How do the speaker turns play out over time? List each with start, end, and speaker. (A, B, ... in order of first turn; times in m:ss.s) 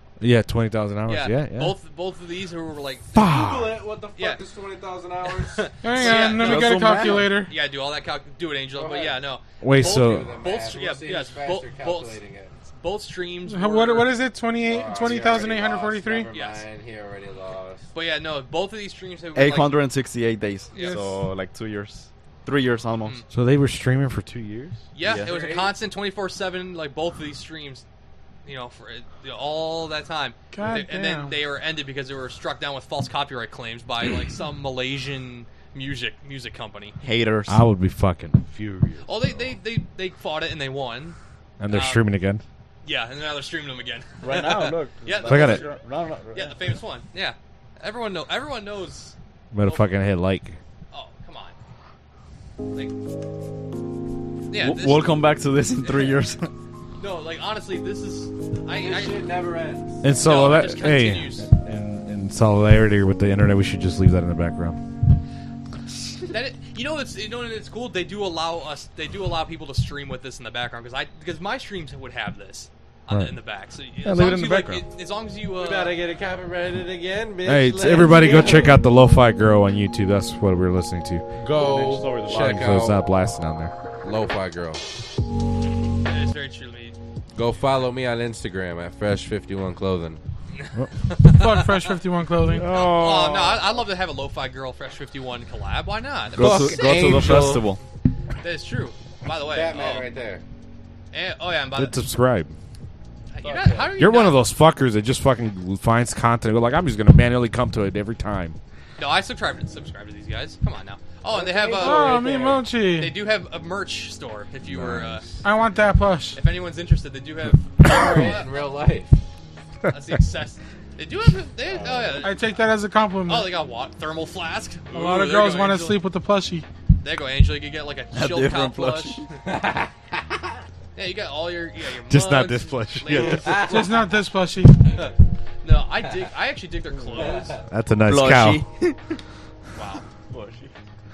0:00.2-0:01.8 A
0:01.1-0:03.2 B
0:03.2-0:03.8 A
0:03.2-0:05.7 C
0:05.3-0:14.1 B
0:05.8-0:07.5 D
0:06.1-0:07.4 E
0:08.8-0:09.2 C
0:09.6-0:10.3 A
0:09.8-0:12.5 C
0:13.5-0:16.3 D
0:14.6-0:17.9 C
0:16.3-0:16.6 B
0:17.9-0:19.7 B
0:19.4-0:23.2 E
0:20.7-0:21.0 B
0:20.8-0:21.2 D
0:23.3-0:24.8 A
0:24.9-0:27.8 B
0:25.0-0:25.3 E
0:25.0-0:25.7 C
0:28.5-0:37.0 B
0:30.5-0:31.4 D
0:37.0-0:37.6 E
0:37.5-0:39.5 A
0:39.0-0:41.2 B
0:41.6-0:42.4 A
0:41.7-0:42.1 B
0:42.8-0:45.8 B
0:44.2-0:46.8 E
0:45.3-0:45.7 A
0:46.3-0:49.9 B
0:49.5-0:50.6 A
0:50.9-0:51.6 B
0:54.5-0:56.3 B
0:54.5-0:56.5 E
0:57.0-0:59.2 B
0:58.7-1:00.0 C
1:00.0-1:04.8 A
1:00.2-1:01.5 B
1:06.3-1:16.0 B
1:13.1-1:13.4 A
1:14.0-1:14.8 A
1:15.6-1:18.8 C
1:17.4-1:21.3 A
1:21.4-1:23.0 C
1:21.6-1:22.6 E
1:22.3-1:23.7 A
1:24.0-1:24.8 C
1:26.0-1:27.0 B
1:27.4-1:30.2 C
1:30.6-1:31.9 B
1:31.3-1:32.7 D
1:32.4-1:33.8 A
1:32.7-1:37.4 B
1:36.4-1:37.8 E
1:36.4-1:37.6 C
1:38.4-1:40.1 B
1:39.5-1:40.4 C
1:41.1-1:42.0 B
1:41.8-1:42.5 A
1:43.3-1:44.4 B
1:43.4-1:43.9 C
1:43.9-1:48.6 A
1:49.0-1:55.2 B
1:51.3-1:52.6 C
1:51.8-1:53.1 D
1:54.7-1:55.2 A
1:55.4-1:56.4 D
1:56.3-1:58.7 B
1:57.8-1:59.2 C
1:59.9-2:02.4 B
2:01.8-2:02.2 E
2:02.2-2:03.5 D
2:03.3-2:06.0 B
2:04.9-2:06.7 D
2:07.0-2:09.2 B
2:08.1-2:09.2 E
2:09.4-2:09.9 C
2:11.0-2:13.6 B
2:12.1-2:13.6 A
2:13.2-2:14.2 C
2:13.6-2:15.0 D
2:15.6-2:17.6 B
2:17.2-2:17.6 C
2:17.7-2:18.6 A
2:18.0-2:19.2 E
2:19.8-2:20.0 B
2:20.3-2:20.7 E